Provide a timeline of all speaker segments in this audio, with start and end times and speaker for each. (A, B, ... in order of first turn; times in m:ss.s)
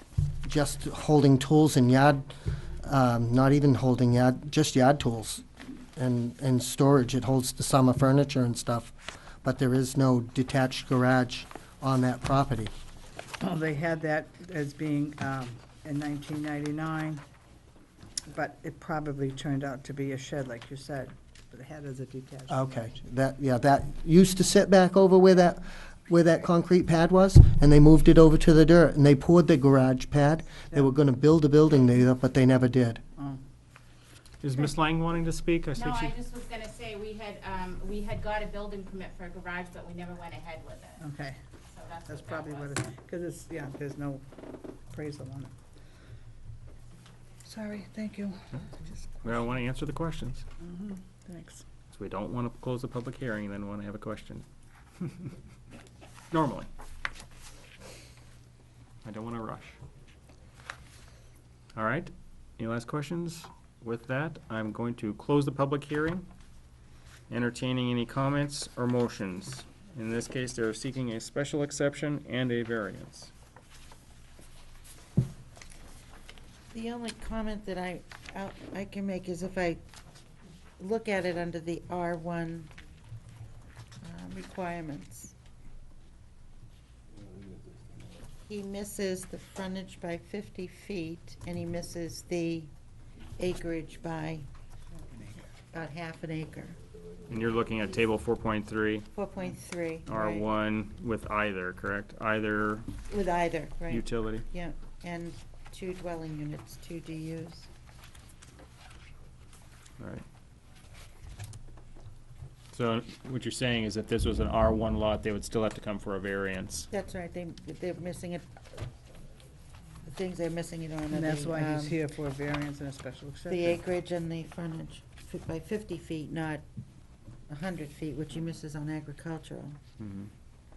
0:00.4-0:12.7 A
0:13.4-0:17.2 B
0:18.3-0:22.7 B
0:22.5-0:33.0 A
0:34.4-0:36.2 C
0:35.8-0:41.0 D
0:41.0-0:41.4 B
0:41.7-0:42.8 D
0:42.1-0:44.2 B
0:44.9-0:45.5 B
0:47.4-0:49.4 B
0:49.2-0:50.5 C
0:50.6-0:51.6 B
0:51.9-0:54.4 C
0:55.0-0:55.3 C
0:56.3-0:56.7 C
0:59.0-0:59.8 C
1:01.8-1:06.2 C
1:07.3-1:13.3 C
1:16.7-1:19.8 E
1:20.8-1:22.7 E
1:24.0-1:25.3 E
1:28.5-1:32.7 E
1:33.4-1:34.5 E
1:35.2-1:35.4 B
1:35.7-1:36.8 E
1:37.3-1:39.1 C
1:39.1-1:40.5 E
1:40.1-1:42.9 C
1:43.1-1:47.7 E
1:43.9-1:44.4 C
1:52.7-1:56.9 C
1:56.9-1:58.5 E
2:00.1-2:02.0 E
2:01.1-2:03.8 B
2:03.5-2:06.6 E
2:07.5-2:09.8 E
2:10.0-2:10.3 C